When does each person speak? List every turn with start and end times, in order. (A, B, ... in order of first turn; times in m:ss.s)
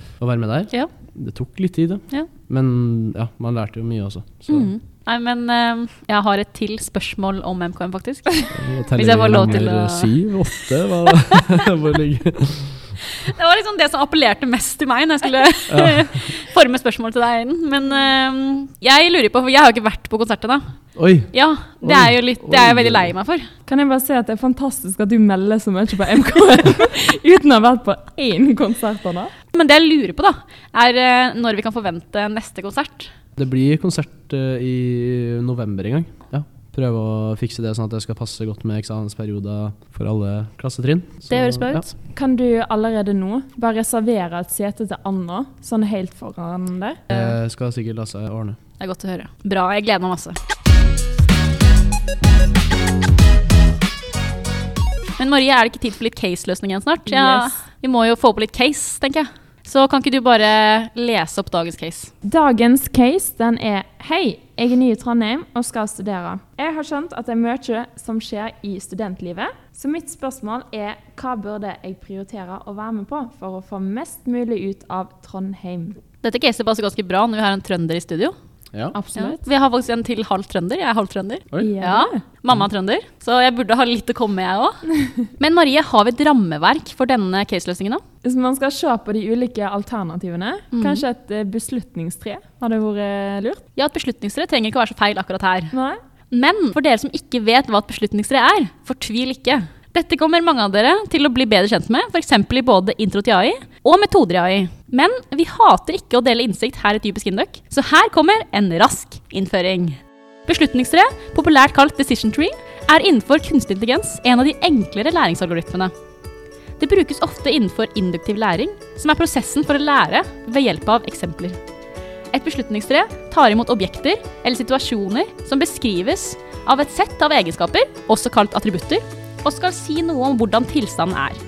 0:00.2-0:04.7 A
0:04.5-0:10.1 B
0:08.5-0:12.9 A
0:13.2-0:20.7 B
0:15.7-0:16.3 A
0:21.0-0:23.1 A
0:21.3-0:23.5 B
0:23.6-0:29.3 C
0:29.5-0:33.1 B
0:33.4-0:41.9 A
0:41.3-0:41.9 B
0:42.1-0:47.0 C
0:47.1-0:48.6 A
0:48.8-0:50.4 B
0:55.2-1:02.1 B
0:57.1-0:57.5 C
1:02.2-1:16.0 C
1:16.2-1:18.3 B
1:18.9-1:19.4 C
1:19.1-1:24.8 B
1:21.6-1:22.2 C
1:25.4-1:28.0 B
1:28.2-1:33.6 C
1:30.7-1:31.0 B
1:33.8-1:35.7 B
1:35.7-1:36.0 C
1:36.3-1:55.9 B
1:56.8-2:01.6 B
2:02.3-2:11.4 B